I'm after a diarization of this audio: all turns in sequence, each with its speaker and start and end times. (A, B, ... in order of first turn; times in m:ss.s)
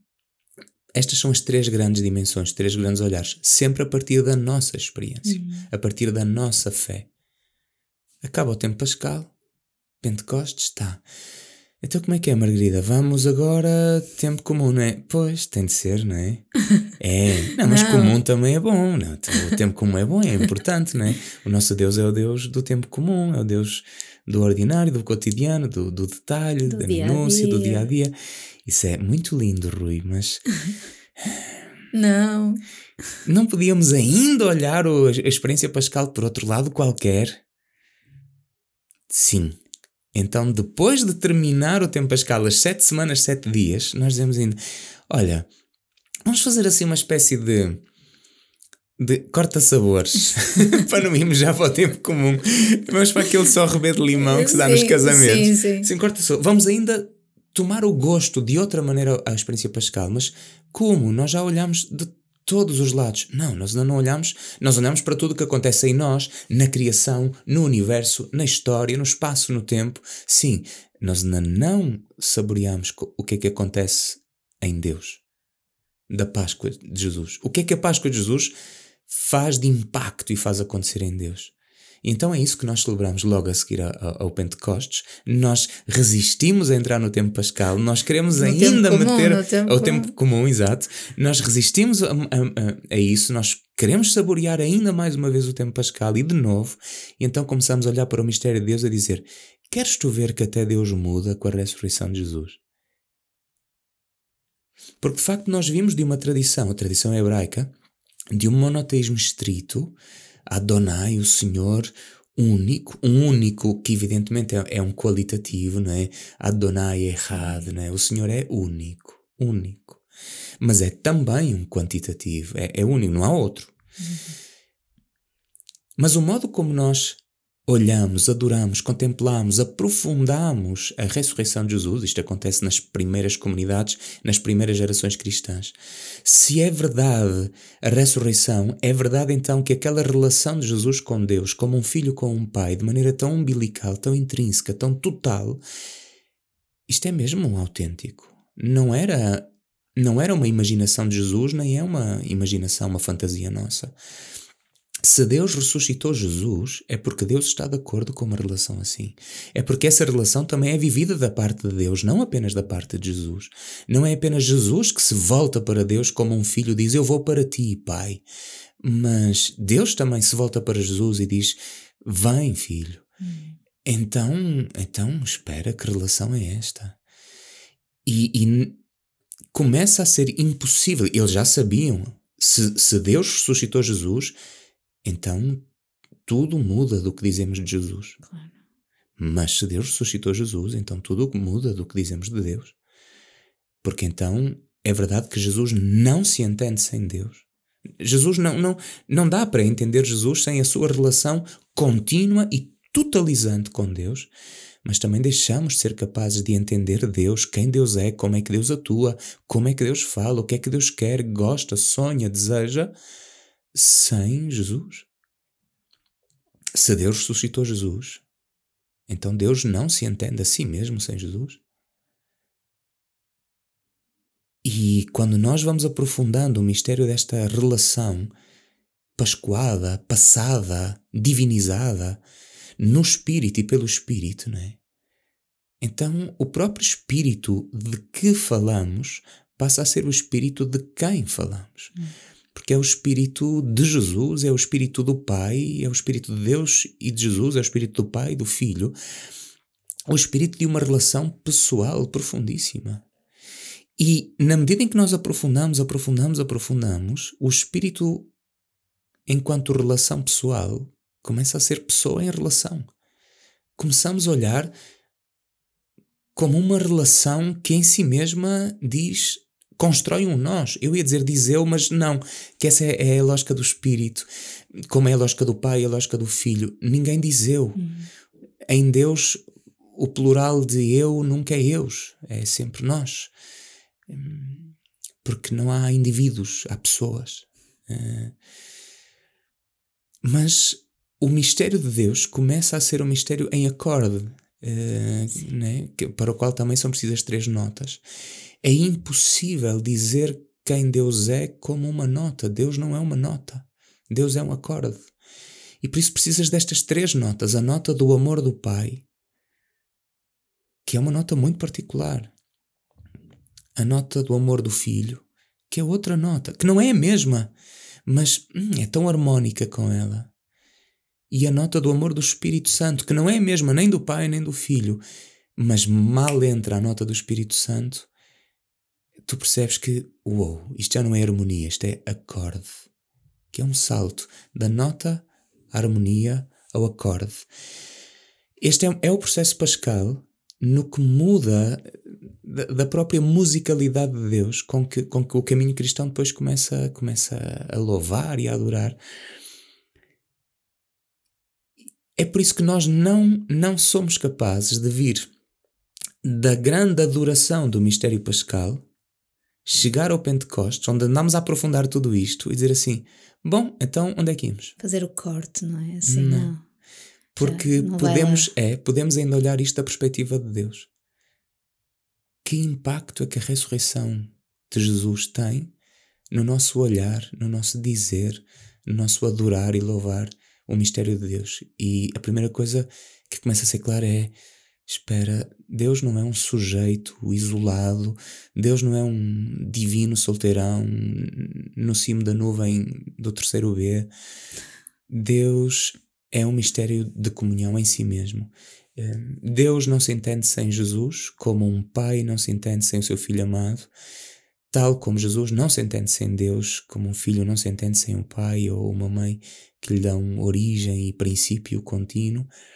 0:00.9-0:07.1 A
0:05.3-0:05.7 B
0:08.2-0:09.3 A
0:10.0-0:11.0 A
0:11.8-0:16.5 A
0:17.0-0:28.1 A
0:17.6-0:18.2 B
0:26.7-0:27.9 B
0:28.7-0:30.4 A
0:31.9-0:32.6 B
0:33.2-0:37.4 A
0:39.1-0:39.6 A
0:40.1-0:44.6 A
0:45.1-0:45.5 A
0:46.3-0:47.8 A
0:49.0-1:15.2 A
0:54.2-0:55.9 B
1:16.1-1:18.5 A
1:19.1-1:21.5 A
1:22.0-1:42.6 A
1:28.4-1:30.1 B
1:45.0-1:47.7 A
1:48.3-1:50.0 A
1:50.5-2:00.0 A
1:57.3-1:57.6 B
2:00.6-2:03.7 A
2:04.0-2:04.2 B
2:06.0-2:25.6 A
2:26.9-2:33.9 A
2:35.0-2:48.2 A
2:48.8-2:53.0 A
2:53.2-2:53.5 B
2:53.8-2:57.0 A
2:58.0-2:58.8 A
2:59.5-3:04.4 A
3:05.0-3:05.6 A
3:06.3-3:08.2 A
3:09.2-3:12.7 A
3:13.8-3:17.4 A
3:18.0-3:24.3 A
3:24.8-3:32.9 A
3:33.7-3:35.1 A
3:36.8-3:38.2 A
3:39.1-3:41.6 A
3:44.6-3:48.3 A
3:49.2-3:52.2 A
3:52.8-3:54.8 A
3:55.8-4:02.0 A
4:02.5-4:09.0 A
4:10.1-4:13.0 A
4:14.0-4:18.3 A
4:19.3-4:22.9 A
4:23.8-4:24.7 A
4:26.4-4:34.3 A
4:34.9-4:37.8 A
4:37.8-4:38.1 B
4:38.7-4:39.4 A
4:39.9-4:43.3 A
4:44.1-4:48.4 A
4:50.2-4:58.0 A
4:58.6-5:05.1 A
5:05.8-5:09.0 A
5:10.8-5:12.3 A
5:13.8-5:17.5 A
5:18.1-5:20.3 A
5:21.3-5:25.0 A
5:25.6-5:28.1 A
5:29.3-5:32.9 A
5:33.5-5:37.5 A
5:38.6-5:41.9 A
5:42.4-5:49.0 A
5:52.2-5:55.3 A
5:56.2-5:58.8 A
5:59.6-6:04.8 A
6:04.8-6:06.6 B
6:06.0-6:06.5 A
6:07.3-6:10.9 A
6:07.4-6:08.5 B
6:12.4-6:15.7 A
6:16.3-6:24.3 A
6:24.9-6:34.1 A
6:35.1-6:43.9 A
6:44.7-6:52.5 A